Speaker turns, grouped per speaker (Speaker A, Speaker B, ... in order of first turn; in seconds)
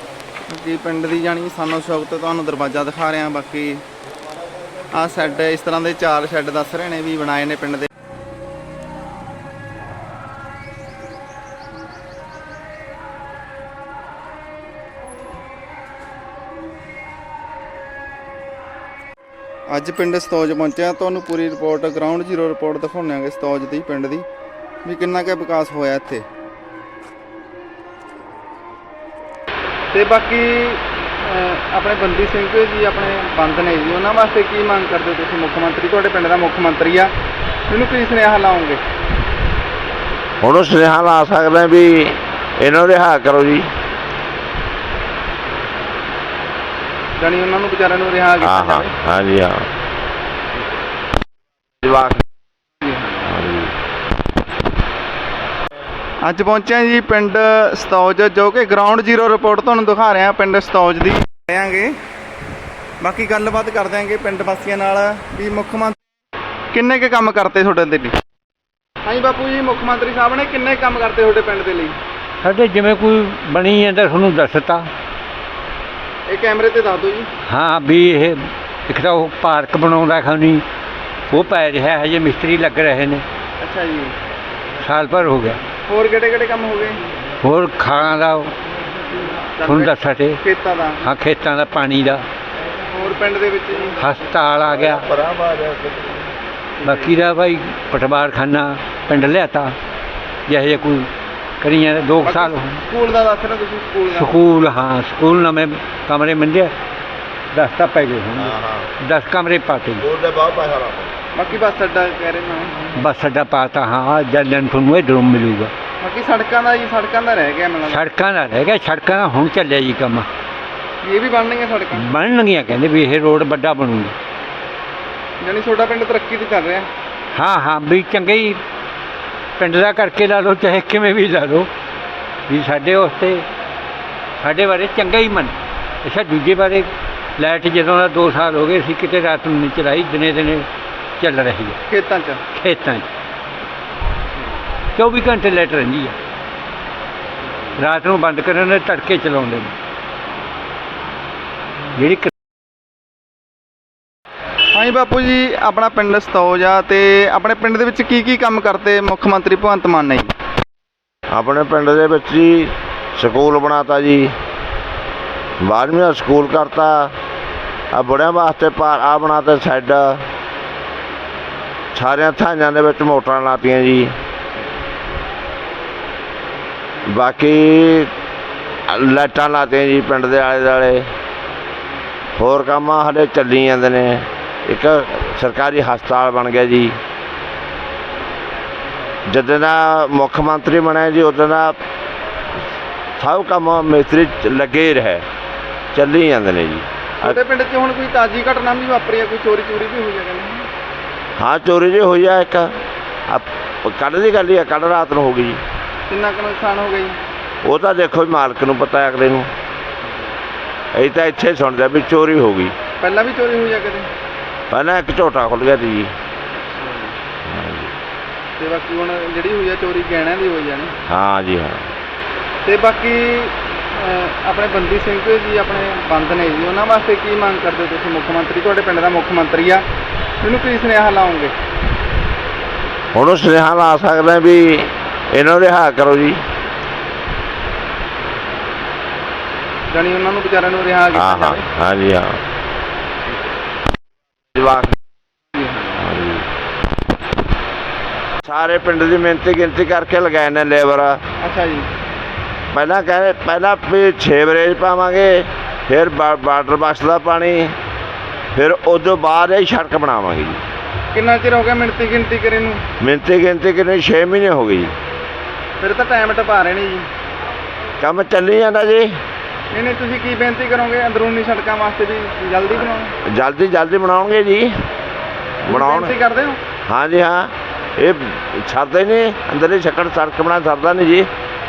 Speaker A: 0.5-3.8, 4.9-7.9, 19.7-24.2, 24.8-26.2, 29.9-37.1, 37.7-38.8, 47.2-48.9, 52.8-53.3, 56.2-62.0, 63.0-66.0, 66.7-68.1, 69.0-72.0, 76.3-77.3, 83.6-84.1, 85.9-87.0, 89.5-91.0, 92.9-94.0, 96.8-97.2, 102.2-104.3, 111.3-112.9, 116.0-118.0, 121.0-122.1, 125.4-126.9, 141.9-142.4, 154.7-160.3, 197.2-200.7, 206.1-207.2, 210.1-210.3, 213.0-214.1, 216.7-217.2, 218.6-220.9, 222.6-229.8, 230.4-231.5, 239.9-241.6, 245.5-246.0, 251.4-251.9, 261.1-262.8, 265.8-267.1, 269.7-273.1, 275.6-276.6
Speaker B: 40.4-43.7, 48.4-49.6, 51.8-52.2, 53.3-53.7, 94.7-96.3, 108.3-108.9, 110.0-111.1, 161.3-164.3, 165.6-167.1, 167.9-170.2, 171.9-174.1, 177.1-178.1, 178.9-181.1, 182.4-187.0, 189.3-191.8, 193.2-195.2, 195.9-197.4, 201.4-202.7, 203.3-205.6, 207.6-209.5, 210.9-212.7, 214.7-216.1, 217.4-217.9, 221.1-221.9, 233.1-236.4, 241.1-242.4, 244.5-245.0, 246.0-246.5, 248.4-251.2, 252.7-257.7, 258.5-260.6, 263.0-264.9, 268.0-269.2, 273.2-274.7, 275.6-276.1, 276.9-281.3
Speaker C: 72.4-74.9, 77.5-80.6, 81.3-83.2, 84.8-85.6, 87.4-88.5, 89.6-90.4, 91.0-92.2, 94.0-95.1, 96.8-99.8, 100.5-101.1, 101.6-102.8, 104.1-106.7, 107.5-110.0, 113.0-115.7, 117.8-120.3, 121.9-124.1, 127.3-128.6, 129.6-131.7, 132.5-133.5, 134.4-140.7, 141.2-141.8, 142.5-143.1, 144.9-146.2, 147.8-149.7, 151.9-152.3